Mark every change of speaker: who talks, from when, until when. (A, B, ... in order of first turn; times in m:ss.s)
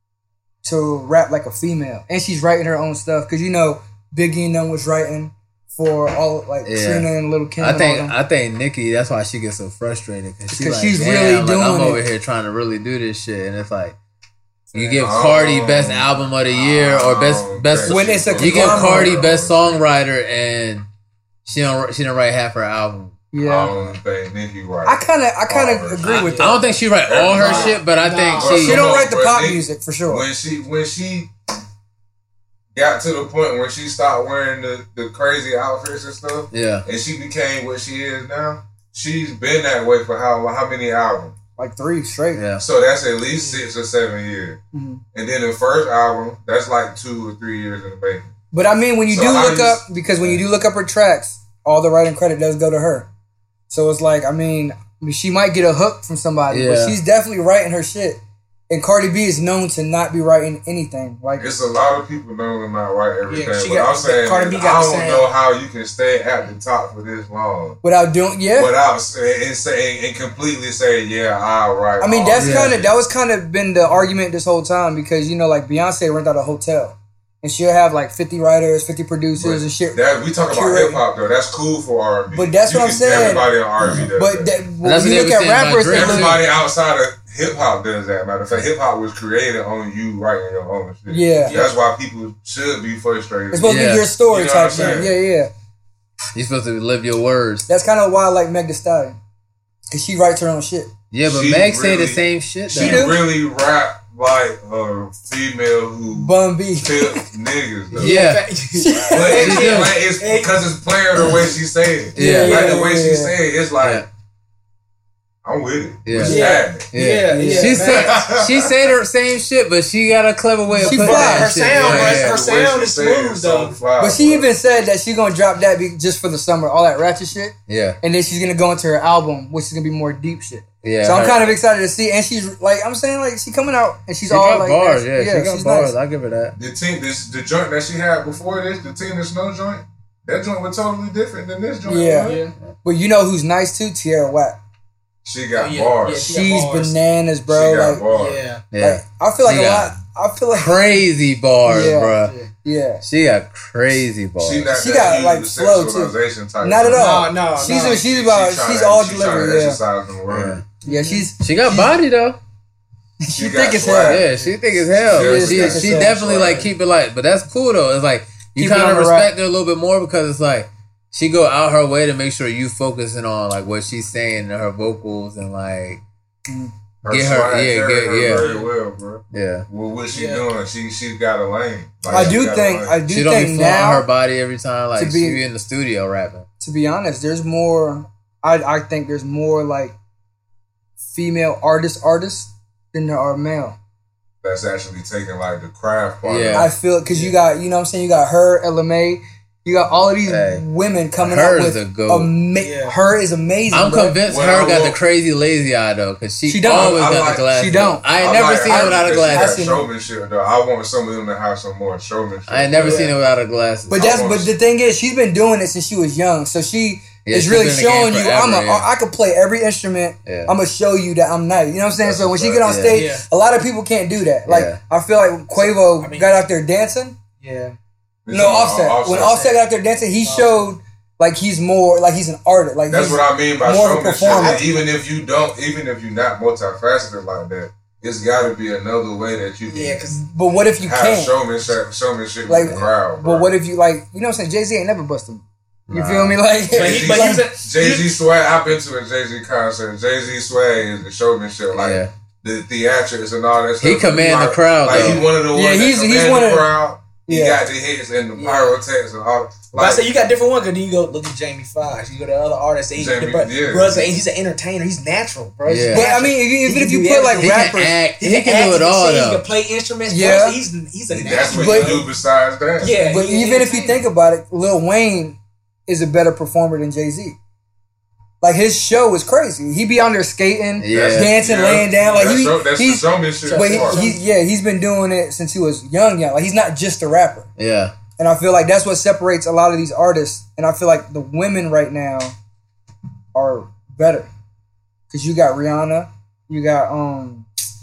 0:00.6-0:08.2 A
0:06.6-0:07.1 B
0:07.6-0:14.0 B
0:10.5-0:12.0 A
0:14.7-0:20.9 B
0:15.0-0:19.8 C
0:17.9-0:19.2 A
0:21.5-0:23.2 B
0:23.3-0:23.8 A
0:23.4-0:26.2 C
0:24.8-0:26.7 A
0:26.0-0:29.0 B
0:26.2-0:26.5 D
0:27.1-0:27.8 C
0:27.3-0:28.8 D
0:28.4-0:31.3 C
0:28.5-0:30.2 A
0:32.8-0:41.4 C
0:36.5-0:36.8 B
0:41.6-0:42.4 A
0:42.3-0:42.6 B
0:42.6-0:44.6 C
0:43.3-0:43.6 D
0:44.7-0:45.0 A
0:45.1-0:48.3 C
0:48.5-0:53.1 A
0:49.1-0:49.8 C
0:53.7-1:01.5 A
0:56.5-0:57.0 B
1:01.4-1:07.8 C
1:03.3-1:05.3 D
1:07.8-1:08.7 A
1:08.5-1:12.9 C
1:12.0-1:21.0 A
1:12.4-1:12.8 B
1:19.4-1:24.6 C
1:22.3-1:26.4 A
1:23.8-1:24.1 B
1:24.8-1:26.4 B
1:25.9-1:35.1 C
1:31.1-1:31.6 A
1:33.5-1:35.5 A
1:33.6-1:34.1 B
1:36.4-1:37.7 B
1:37.7-1:39.2 A
1:39.9-1:40.9 A
1:41.1-1:43.1 B
1:41.2-1:48.2 C
1:42.8-1:43.2 A
1:46.1-1:47.2 A
1:48.0-1:48.5 B
1:48.0-1:50.6 D
1:48.8-1:49.5 A
1:49.1-1:54.0 C
1:49.3-1:50.0 B
1:52.2-1:52.6 B
1:52.2-1:53.4 A
1:52.4-1:52.8 D
1:53.8-1:54.1 B
1:55.4-1:56.9 C
1:56.0-2:02.4 B
1:56.2-1:58.2 D
1:57.3-1:57.9 A
1:57.8-1:58.7 C
2:00.8-2:03.8 D
2:00.8-2:01.6 A
2:01.7-2:04.5 C
2:04.0-2:16.0 A
2:07.7-2:08.0 B
2:10.8-2:11.6 B
2:14.3-2:16.6 B
2:16.6-2:22.4 C
2:21.8-2:24.6 A
2:22.2-2:22.6 D
2:25.2-2:26.4 C
2:25.6-2:27.0 D
2:26.3-2:28.0 A
2:27.5-2:28.4 C
2:28.1-2:28.6 D
2:28.7-2:30.0 B
2:28.8-2:30.9 A
2:30.5-2:32.4 B
2:31.7-2:33.0 A
2:32.3-2:32.5 D
2:33.0-2:34.7 B
2:34.4-2:40.6 C
2:34.7-2:39.8 A
2:36.9-2:38.0 D
2:40.3-2:40.6 B
2:40.8-2:41.9 A
2:40.8-2:41.3 D
2:41.4-2:42.4 B
2:43.2-2:44.2 A
2:43.4-2:46.7 C
2:44.0-2:56.0 B
2:45.2-2:46.2 A
2:46.4-2:46.7 D
2:48.6-2:49.3 A
2:56.5-2:56.7 A
2:57.0-3:03.0 C
2:57.1-2:58.5 B
2:58.4-2:58.7 D
2:59.3-2:59.7 B
3:00.1-3:00.5 D
3:02.1-3:04.1 A
3:02.1-3:02.4 B
3:03.1-3:06.5 B
3:05.0-3:05.4 A
3:06.6-3:10.0 A
3:11.1-3:13.8 A
3:14.4-3:16.7 C
3:16.2-3:16.7 B
3:16.5-3:24.2 A
3:17.1-3:17.4 D
3:20.3-3:20.6 B
3:21.2-3:22.3 B
3:22.6-3:23.0 D
3:23.7-3:29.6 B
3:24.3-3:25.0 C
3:26.5-3:29.8 A
3:26.7-3:27.5 C
3:28.1-3:33.2 C
3:32.5-3:34.2 B
3:32.8-3:33.1 D
3:33.9-3:47.2 A
3:33.9-3:34.5 C
3:37.2-3:38.9 B
3:40.3-3:40.5 B
3:42.0-3:42.8 C
3:42.6-3:43.0 B
3:42.9-3:43.2 D
3:44.5-3:44.8 B
3:45.6-3:46.3 D
3:47.4-3:47.8 D
3:48.2-3:49.4 C
3:48.3-3:54.6 A
3:49.1-3:49.6 D
3:50.2-3:50.7 D
3:52.9-4:00.0 C
3:54.3-3:54.8 D
3:59.7-4:00.2 D
4:00.1-4:01.3 A
4:00.8-4:03.5 C
4:02.5-4:07.4 A
4:05.9-4:06.4 B
4:06.7-4:08.2 D
4:06.7-4:20.1 C
4:11.7-4:12.1 B
4:13.8-4:15.3 B
4:14.9-4:15.2 D
4:15.5-4:16.8 A
4:17.3-4:17.6 A
4:18.4-4:18.7 D
4:19.8-4:32.1 D
4:23.0-4:24.1 C
4:25.6-4:26.1 B
4:25.9-4:28.0 A
4:27.4-4:29.4 B
4:30.1-4:30.6 A
4:31.1-4:33.0 C
4:31.5-4:32.0 A
4:32.8-4:34.0 D
4:33.0-4:37.4 A
4:38.4-4:47.5 A
4:40.8-4:41.4 B
4:40.9-4:44.0 C
4:43.4-4:44.2 D
4:47.6-4:47.9 B
4:48.2-4:52.3 A
4:53.3-4:54.3 A
4:55.1-4:57.5 A